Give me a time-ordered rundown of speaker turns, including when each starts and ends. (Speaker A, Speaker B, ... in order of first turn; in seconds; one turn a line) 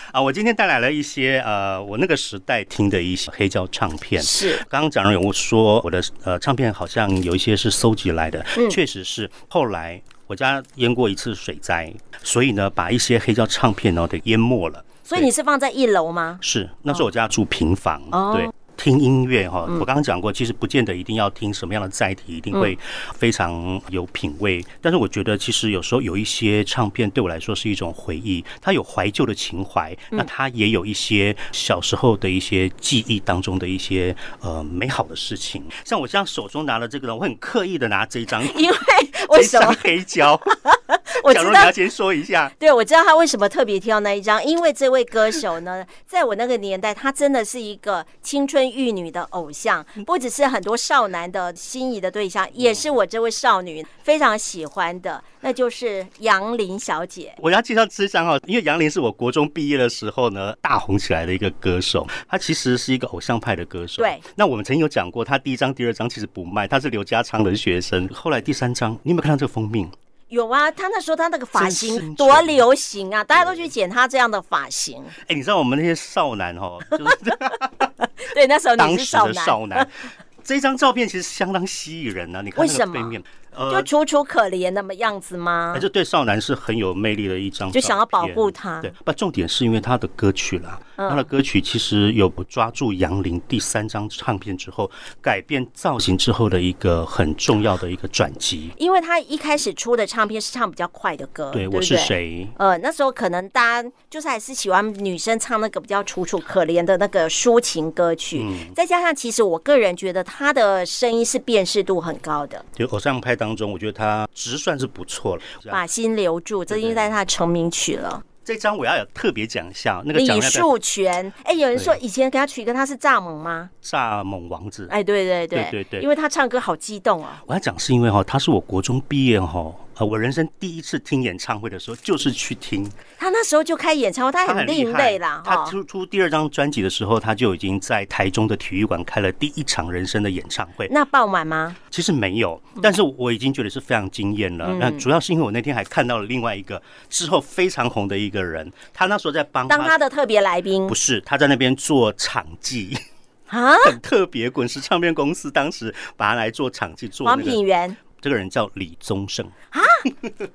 Speaker A: 0.1-15.3
Speaker B: 4.2-4.6
Speaker B: 15.1-16.4
Speaker A: 16.4-40.6
Speaker B: 18.1-18.5
Speaker B: 38.4-40.0
Speaker B: 40.6-41.7
Speaker A: 41.1-42.5
Speaker B: 42.6-57.4
Speaker A: 57.4-69.9
Speaker B: 64.0-64.2
Speaker B: 70.3-75.2
Speaker A: 71.5-72.6
Speaker A: 73.4-73.7
Speaker A: 75.2-77.9
Speaker B: 78.2-79.9
Speaker A: 78.8-83.9
Speaker B: 82.6-83.2
Speaker B: 83.7-85.9
Speaker A: 85.7-98.8
Speaker B: 87.7-88.9
Speaker B: 91.0-91.3
Speaker B: 98.8-112.7
Speaker A: 101.5-102.6
Speaker A: 108.3-108.8
Speaker A: 112.8-115.9
Speaker B: 115.7-118.2
Speaker A: 116.7-117.2
Speaker A: 118.5-120.7
Speaker B: 120.1-123.7
Speaker A: 121.7-122.0
Speaker A: 123.8-124.9
Speaker B: 124.9-127.4
Speaker A: 125.5-126.1
Speaker A: 127.5-133.0
Speaker B: 133.2-135.8
Speaker A: 134.4-140.9
Speaker B: 140.9-141.8
Speaker A: 141.9-150.0
Speaker B: 144.6-145.1
Speaker B: 149.7-150.9
Speaker A: 150.9-153.0
Speaker B: 153.5-154.0
Speaker A: 153.8-157.6
Speaker B: 157.2-158.0
Speaker A: 158.1-159.5
Speaker B: 159.7-160.1